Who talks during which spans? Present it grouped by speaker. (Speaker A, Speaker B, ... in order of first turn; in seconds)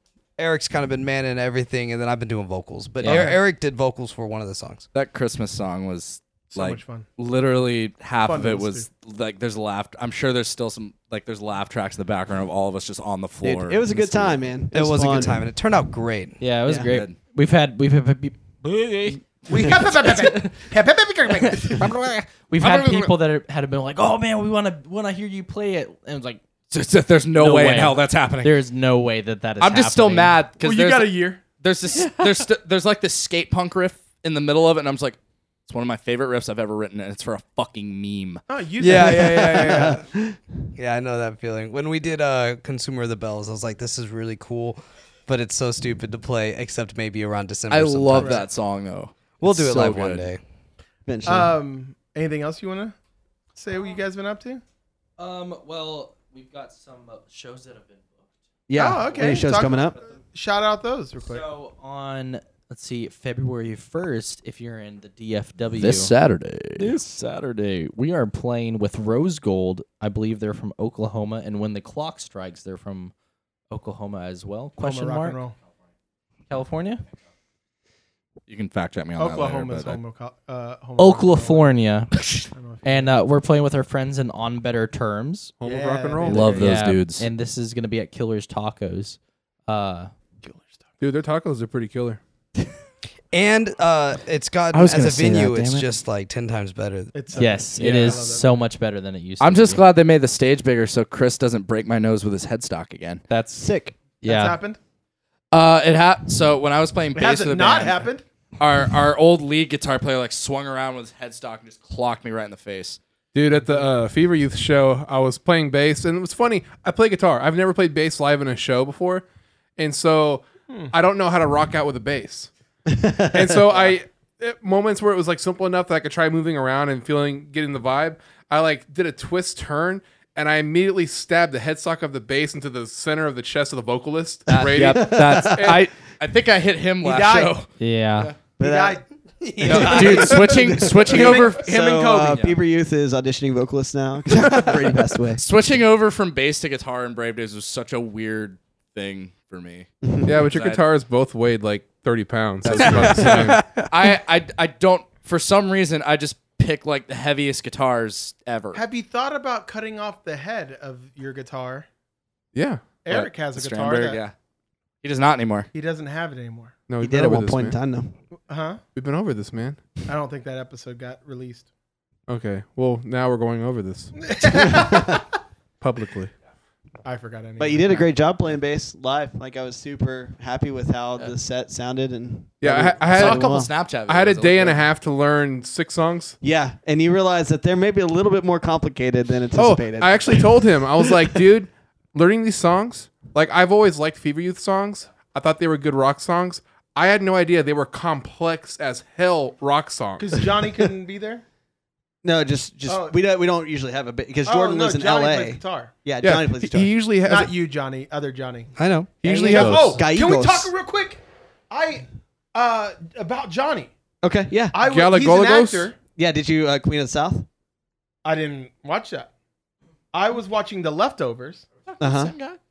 Speaker A: 0.4-4.9, 14.7-16.4, 38.8-40.1, 40.8-48.5, 49.4-50.4, 93.3-97.1, 139.4-140.7, 152.7-154.1, 208.8-209.8
Speaker B: 3.0-3.3, 16.4-20.7, 21.3-26.5, 27.3-30.4, 55.2-58.3, 59.0-59.4, 61.2-66.1, 66.8-73.1, 73.7-75.4, 76.5-77.0, 81.0-82.1, 82.8-85.5, 86.4-90.1, 97.3-99.8, 103.3-104.6, 137.8-138.3
Speaker C: 3.1-3.4, 6.5-7.1, 8.2-8.9, 19.5-21.9, 30.6-31.4, 38.5-40.0, 48.2-48.5, 51.3-53.0, 53.5-54.6, 58.8-61.5, 74.8-75.5, 79.2-81.7, 82.5-83.2, 85.6-86.7, 90.5-90.7, 97.1-98.5, 104.2-104.8, 107.2-108.2, 137.0-137.7, 138.6-139.0, 139.6-142.4, 158.7-161.9, 163.0-164.2, 165.7-166.7, 168.5-168.8, 170.1-171.7, 174.3-175.2, 177.0-178.1, 200.2-201.4, 202.9-203.2, 204.4-205.9, 207.2-208.7, 209.2-213.9, 214.7-216.0, 218.2-219.3, 220.1-221.7
Speaker D: 4.9-14.4, 16.8-17.2, 21.8-23.2, 26.7-28.5, 29.6-38.4, 47.7-50.3, 65.8-66.9, 78.5-80.0, 86.3-87.3, 94.7-95.7, 99.4-103.2, 105.5-108.0, 108.6-113.0, 134.5-138.3, 139.6-141.7, 142.3-142.6, 144.6-149.9, 150.4-150.8, 152.6-158.8, 163.1-164.3, 165.0-165.7, 183.1-184.9, 221.9-222.6
Speaker E: 13.4-15.4, 39.0-40.4, 51.1-51.5, 58.7-60.0, 103.6-103.9, 122.9-123.6, 134.8-135.8, 138.6-139.0, 139.6-145.4, 150.0-150.4, 167.0-168.2, 177.6-183.7, 186.4-191.3, 202.2-206.9, 210.0-210.7, 214.2-214.8, 216.2-217.5, 222.0-222.3
Speaker F: 85.6-86.6, 91.0-92.2, 113.3-119.2, 119.8-122.5, 123.3-135.9, 150.2-153.6, 162.5-163.0, 166.9-167.8, 169.0-169.8, 172.3-174.8, 175.8-176.3, 182.6-186.4, 189.6-200.4, 206.2-207.5, 209.2-210.0, 214.8-215.9